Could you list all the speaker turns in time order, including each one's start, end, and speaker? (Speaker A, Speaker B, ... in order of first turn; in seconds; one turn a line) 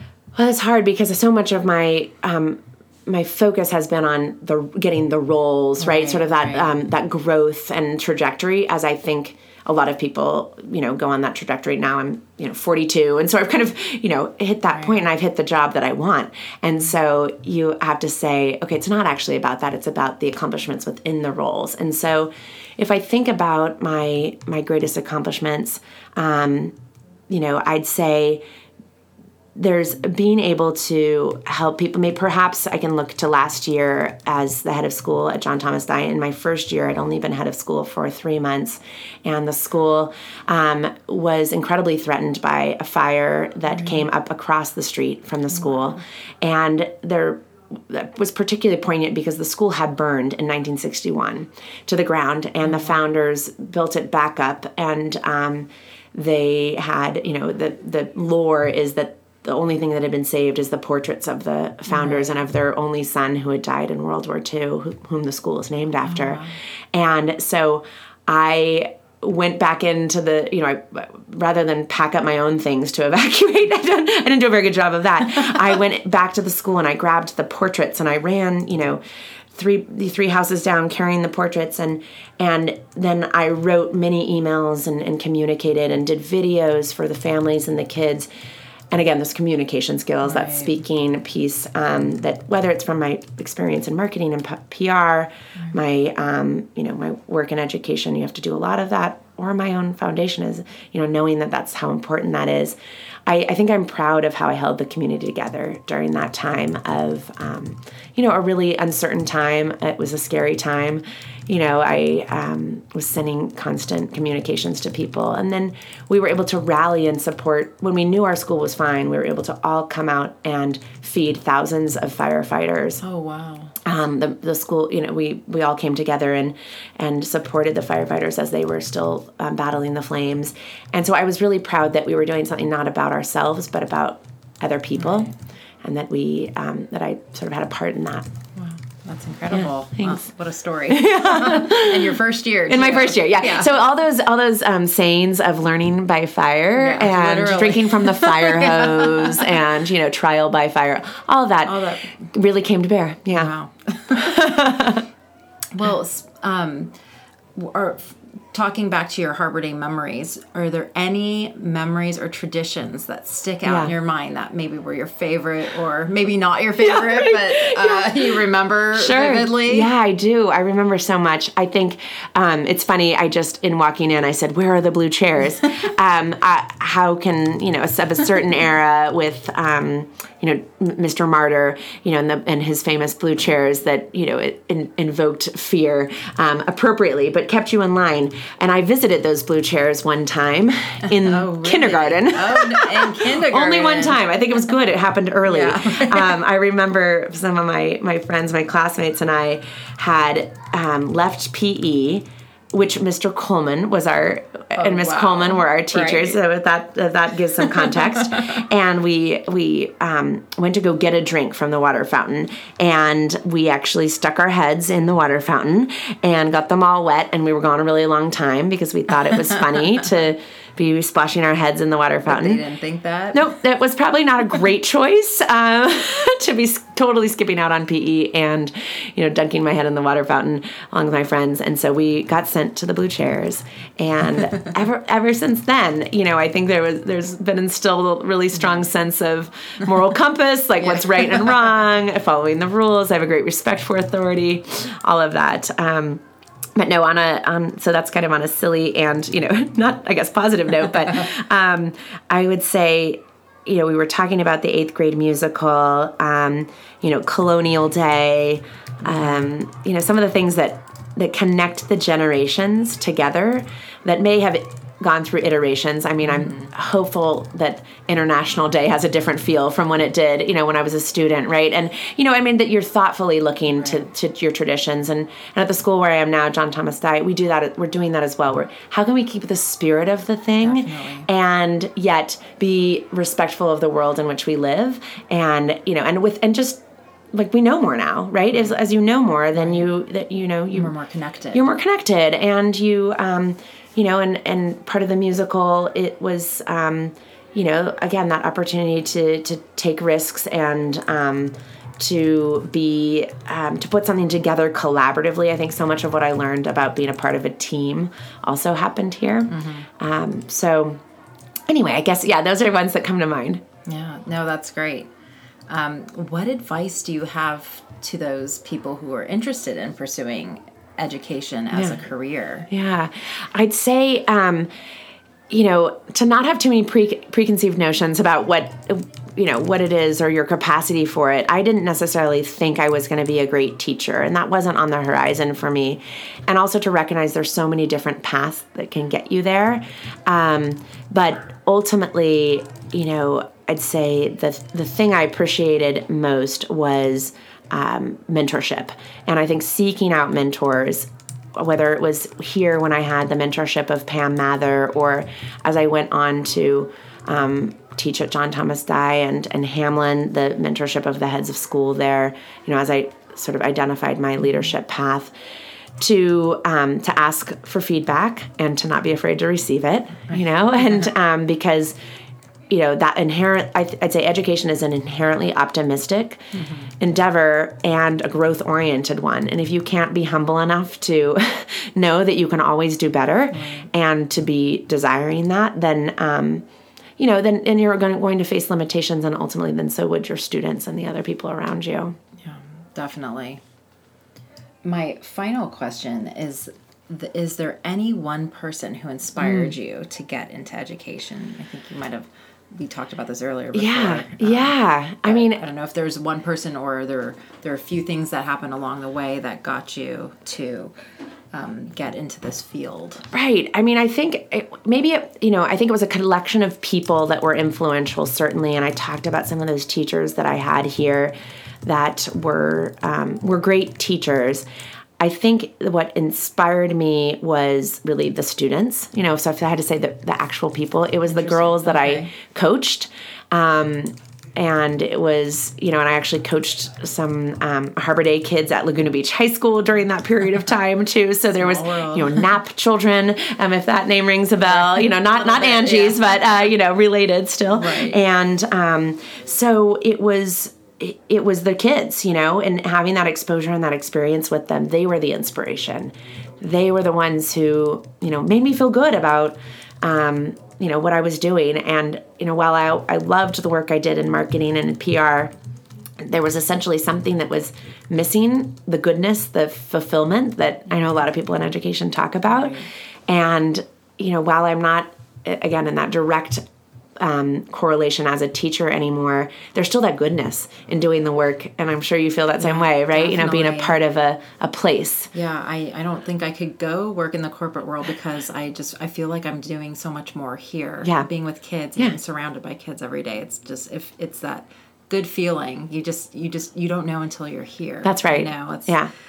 Speaker A: 0.3-26.8
Speaker B: 5.8-6.8
Speaker A: 27.3-28.4
Speaker A: 29.6-79.0
Speaker B: 61.9-62.4
Speaker B: 66.1-66.5
Speaker A: 79.5-88.3
Speaker A: 88.9-123.0
Speaker B: 90.2-90.7
Speaker B: 123.0-123.8
Speaker A: 123.8-135.3
Speaker B: 135.0-135.3
Speaker A: 135.8-138.3
Speaker B: 138.6-143.7
Speaker A: 139.5-140.2
Speaker A: 140.9-153.5
Speaker B: 146.8-149.5
Speaker B: 151.7-152.2
Speaker B: 153.3-154.4
Speaker A: 154.1-155.1
Speaker B: 155.7-156.9
Speaker B: 157.6-169.9
Speaker A: 163.7-163.9
Speaker A: 166.8-168.4
Speaker A: 168.9-222.6
Speaker B: 191.1-194.2
Speaker B: 195.5-196.4
Speaker B: 204.8-206.4
Speaker B: 222.2-223.5
Speaker A: 223.3-246.2
Speaker B: 240.9-241.2
Speaker A: 246.8-286.8
Speaker B: 259.0-259.4
Speaker B: 266.3-266.7
Speaker B: 280.6-281.3
Speaker A: 287.3-290.9
Speaker B: 289.6-289.9
Speaker B: 290.7-291.7
Speaker A: 291.5-311.0
Speaker B: 309.5-309.9
Speaker A: 311.7-313.6
Speaker B: 313.9-315.1
Speaker B: 315.7-322.7
Speaker A: 321.7-322.0
Speaker A: 322.7-324.7
Speaker A: 325.5-365.3
Speaker A: 366.0-372.0
Speaker A: 372.7-386.6
Speaker B: 376.6-376.9
Speaker B: 383.5-383.9
Speaker A: 387.2-392.2
Speaker B: 392.4-393.6
Speaker B: 394.8-410.9
Speaker A: 399.4-399.7
Speaker A: 403.7-405.6
Speaker B: 411.5-413.3
Speaker A: 413.3-421.3
Speaker A: 421.9-424.6
Speaker A: 425.2-465.5
Speaker B: 431.3-432.3
Speaker B: 441.6-442.5
Speaker B: 444.8-446.2
Speaker B: 447.7-448.2
Speaker A: 466.2-476.6
Speaker B: 472.5-472.9
Speaker A: 477.2-485.3
Speaker B: 482.6-484.0
Speaker B: 485.3-499.0
Speaker A: 498.1-499.1